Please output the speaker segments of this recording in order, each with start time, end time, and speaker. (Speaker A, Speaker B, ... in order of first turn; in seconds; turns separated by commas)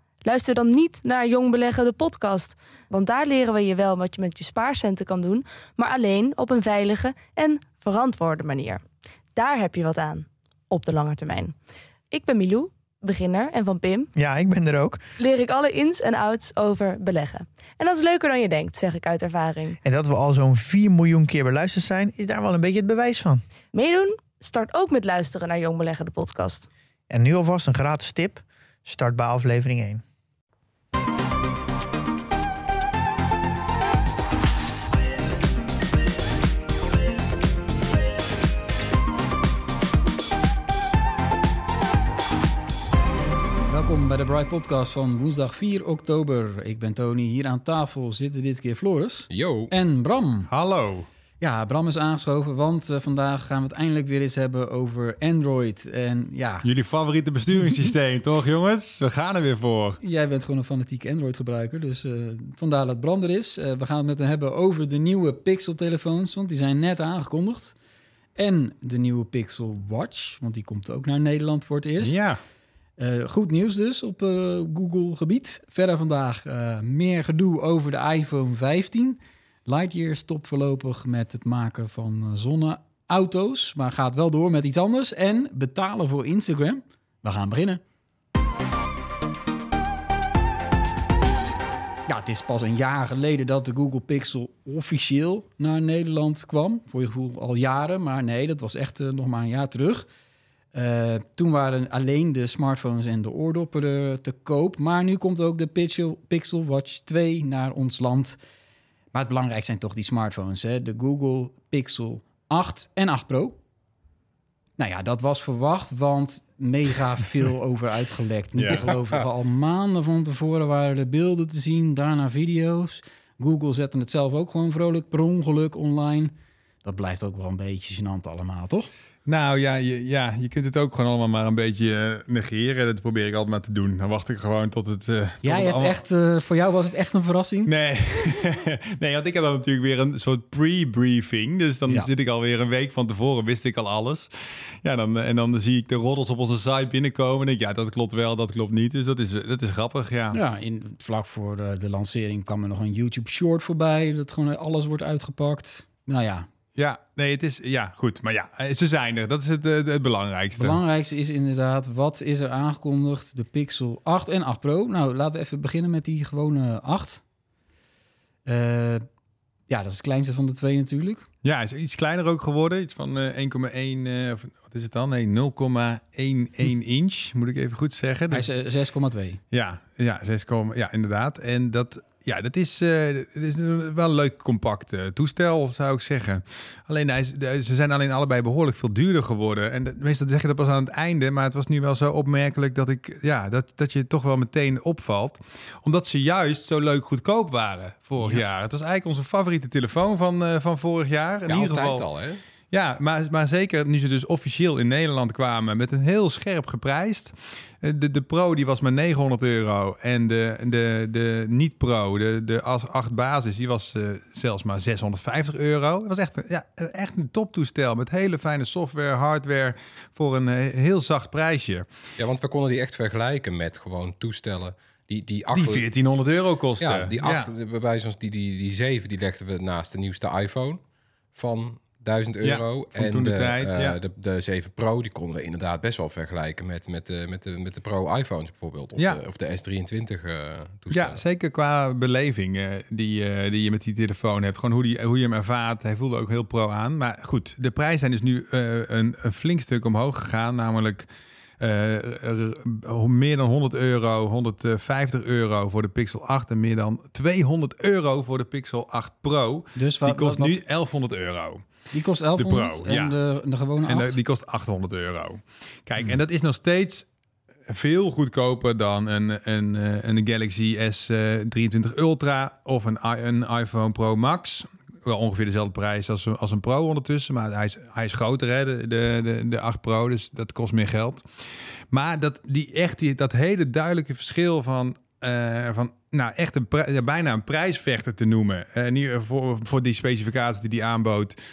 Speaker A: 0.2-8.8, Speaker A: 9.3-11.6, Speaker A: 12.1-14.1, Speaker B: 14.2-15.0, Speaker A: 15.2-19.8, Speaker B: 19.8-23.4, Speaker A: 23.7-26.7, Speaker B: 27.1-30.0, Speaker C: 43.7-50.5, Speaker D: 49.3-49.7, Speaker E: 50.5-51.1, Speaker C: 51.4-56.7, Speaker E: 56.6-60.0, Speaker C: 60.0-67.8, Speaker C: 68.4-72.2, Speaker E: 72.0-72.4, Speaker C: 73.0-87.8, Speaker C: 92.1-100.1, Speaker C: 100.7-108.4, Speaker C: 109.1-113.6, Speaker C: 114.8-128.9, Speaker E: 118.6-118.9, Speaker E: 129.3-136.0, Speaker C: 135.4-137.7, Speaker E: 137.7-144.3, Speaker E: 144.8-150.4, Speaker C: 150.3-156.5, Speaker E: 156.8-160.8, Speaker C: 160.6-167.2, Speaker C: 168.5-169.1, Speaker C: 169.7-171.3, Speaker E: 171.4-178.6, Speaker C: 178.3-179.4, Speaker E: 179.5-202.1, Speaker D: 201.5-202.4, Speaker E: 202.7-221.9, Speaker D: 222.2-225.9, Speaker E: 225.5-227.5, Speaker D: 226.8-230.8, Speaker D: 231.3-241.2, Speaker E: 232.4-234.0, Speaker E: 240.9-251.1, Speaker E: 251.6-261.6, Speaker C: 259.8-260.6, Speaker C: 261.9-264.2, Speaker E: 262.4-263.2, Speaker E: 263.8-267.1, Speaker E: 267.7-291.4